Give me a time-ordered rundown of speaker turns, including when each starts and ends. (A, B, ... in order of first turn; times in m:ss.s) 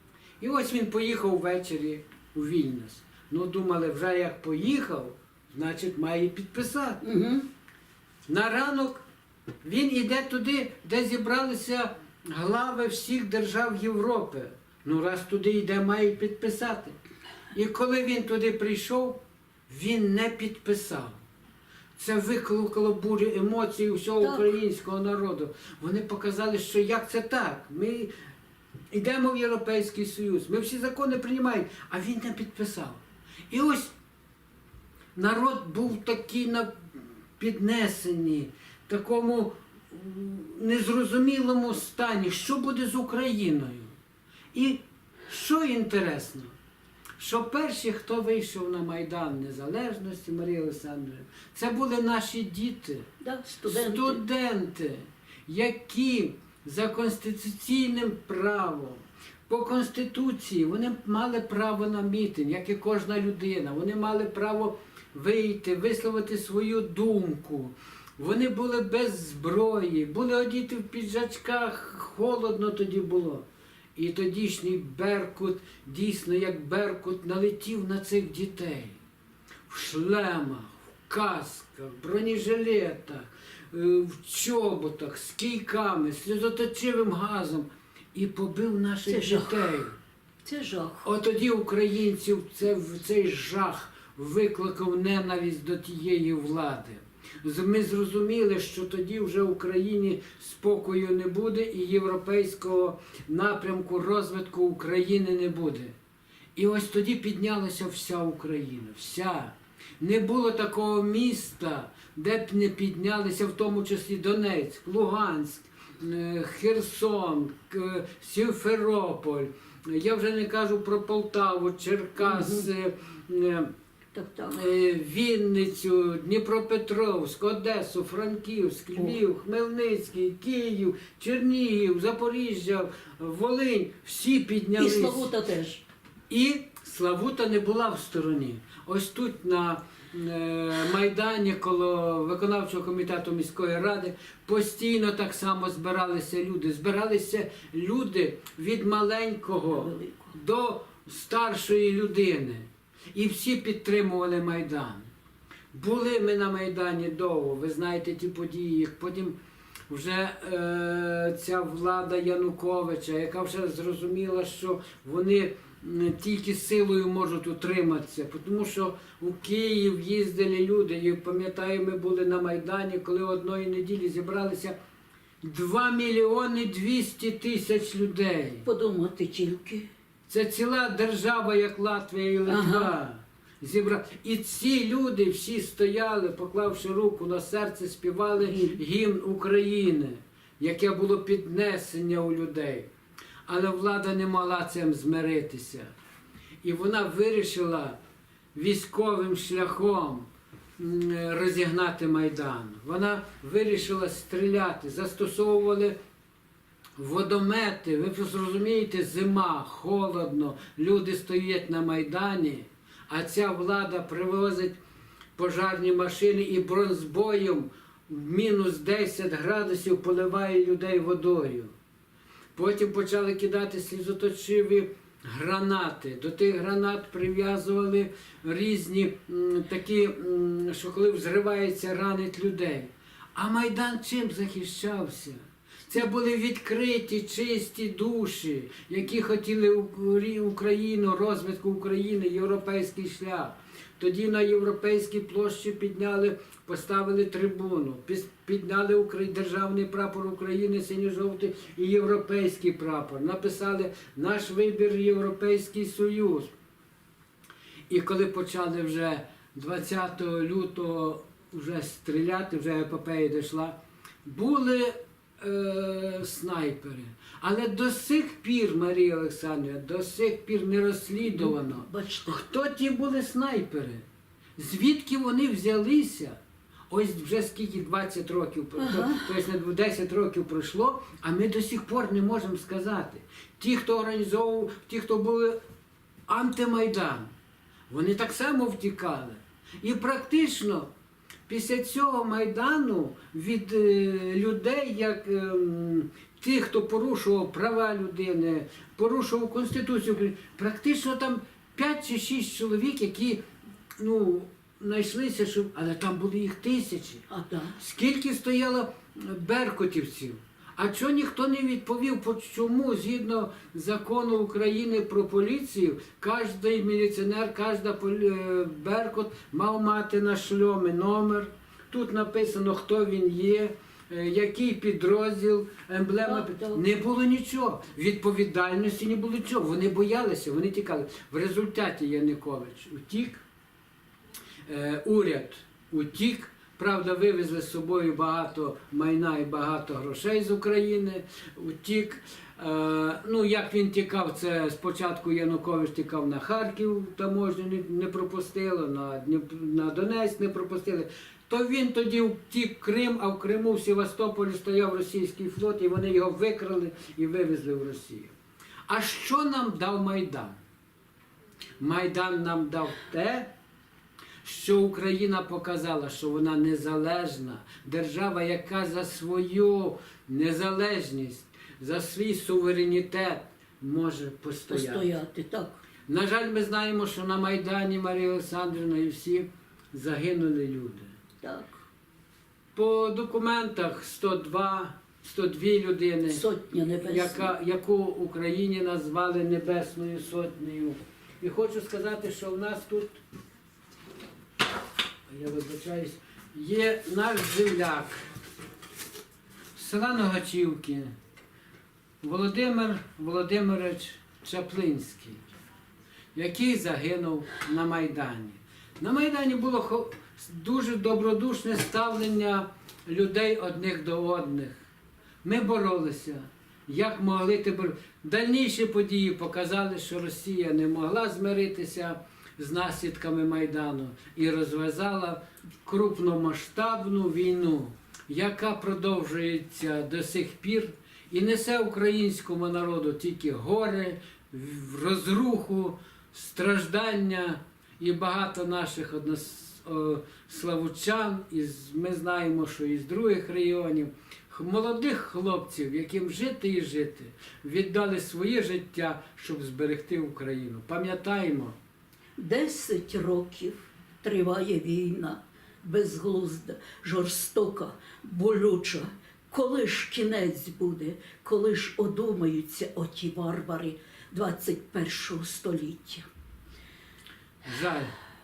0:00.4-0:07.0 A
0:07.0-0:07.5 B
0:08.3-0:09.0 A
0:09.6-0:17.0 A
0:17.5-0:21.2 A
0:22.0-0:28.1 A
0:28.9-0:33.9 A
0:35.2-0:36.7 A
0:37.4-0:43.9 A
0:44.5-0:46.5 A
0:47.2-0:53.1 A
0:53.2-0:54.2 B
0:53.7-1:13.4 A
1:14.0-1:19.0 A
1:19.7-1:30.0 A
1:29.1-1:29.8 B
1:30.4-1:31.1 B
1:31.0-1:45.9 A
1:46.6-2:03.7 A
2:02.2-2:02.7 B
2:04.1-2:04.6 B
2:04.5-2:15.3 A
2:14.8-2:15.8 B
2:16.3-2:35.1 A
2:29.7-2:30.4 B
2:35.7-2:39.4 A
2:39.9-2:54.8 A
2:55.4-2:58.6 A
2:58.6-2:59.9 B
3:00.3-3:12.9 A
3:02.5-3:02.9 B
3:08.4-3:08.8 B
3:13.5-3:15.9 A
3:16.6-3:18.0 A
3:18.5-3:20.3 A
3:20.8-3:26.0 A
3:27.0-3:34.8 A
3:35.4-3:41.7 A
3:42.6-3:55.4 A
3:55.9-4:16.5 A
4:17.9-4:34.0 A
4:31.2-4:32.4 B
4:34.6-4:36.4 A
4:36.9-4:45.6 A
4:38.8-4:39.3 B
4:46.3-4:47.3 A
4:47.9-4:50.9 A
4:51.5-5:03.4 A
5:04.0-5:07.2 A
5:07.3-5:07.8 B
5:07.8-5:33.4 A
5:26.2-5:26.8 B
5:34.7-5:58.3 A
5:58.9-6:00.6 A
6:01.8-6:03.5 A
6:04.4-6:15.1 A
6:14.7-6:15.8 B
6:16.1-6:21.1 A
6:21.4-6:21.8 B
6:22.8-6:26.4 A
6:26.3-6:27.5 B
6:27.0-6:33.2 A
6:35.3-6:38.2 A
6:39.8-6:41.1 A
6:42.2-6:45.4 A
6:46.3-6:54.8 A
6:55.4-7:31.7 A
7:32.4-7:46.3 B
7:47.6-7:48.1 A